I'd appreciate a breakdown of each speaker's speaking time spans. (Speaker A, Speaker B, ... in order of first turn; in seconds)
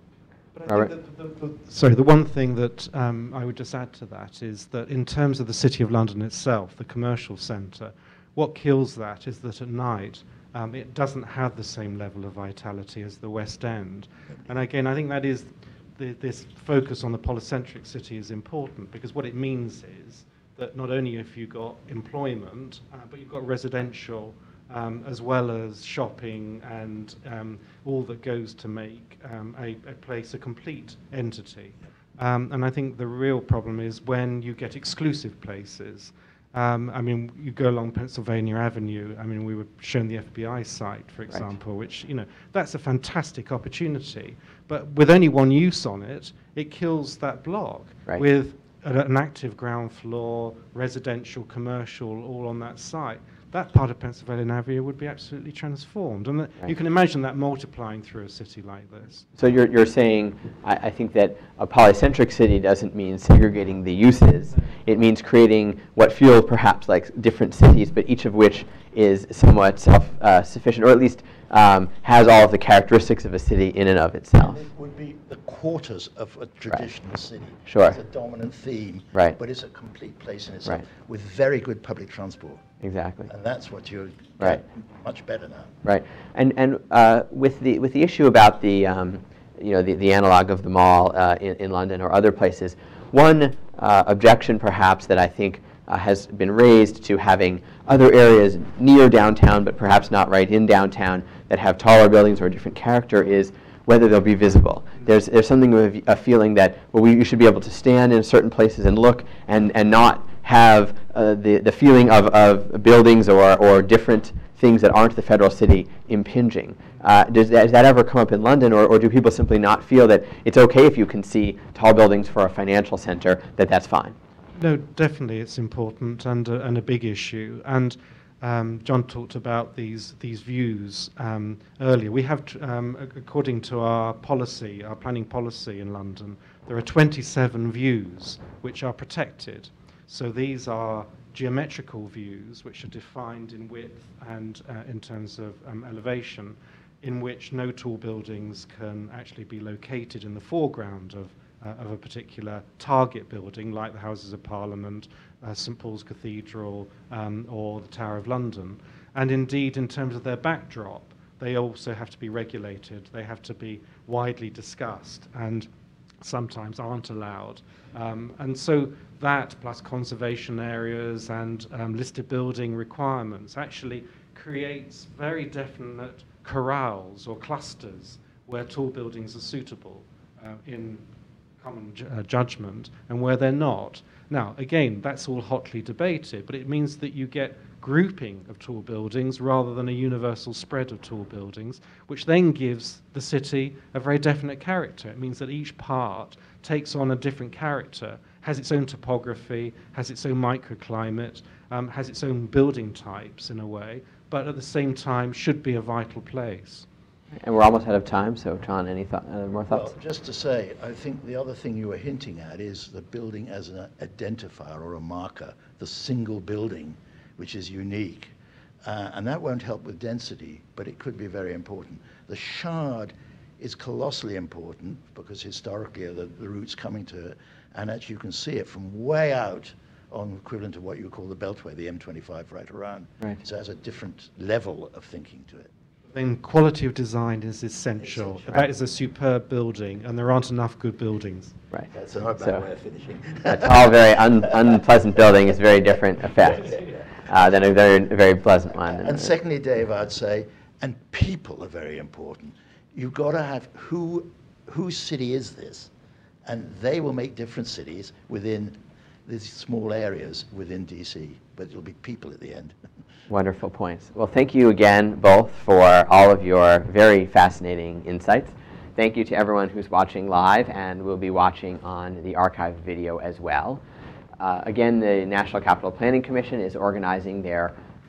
Speaker A: 0.5-59.3, 124.5-165.7, 166.2-181.0, 181.6-206.8, 236.1-241.6
Speaker B: 59.4-74.6, 77.7-78.0, 82.8-83.3, 85.8-124.2, 207.4-209.9, 242.4-242.6, 243.4-249.3, 263.3-273.8, 274.4-277.7
Speaker C: 74.4-82.6, 83.3-85.8, 209.7-235.7, 238.0-238.7, 241.9-244.8, 248.8-255.9, 256.4-262.7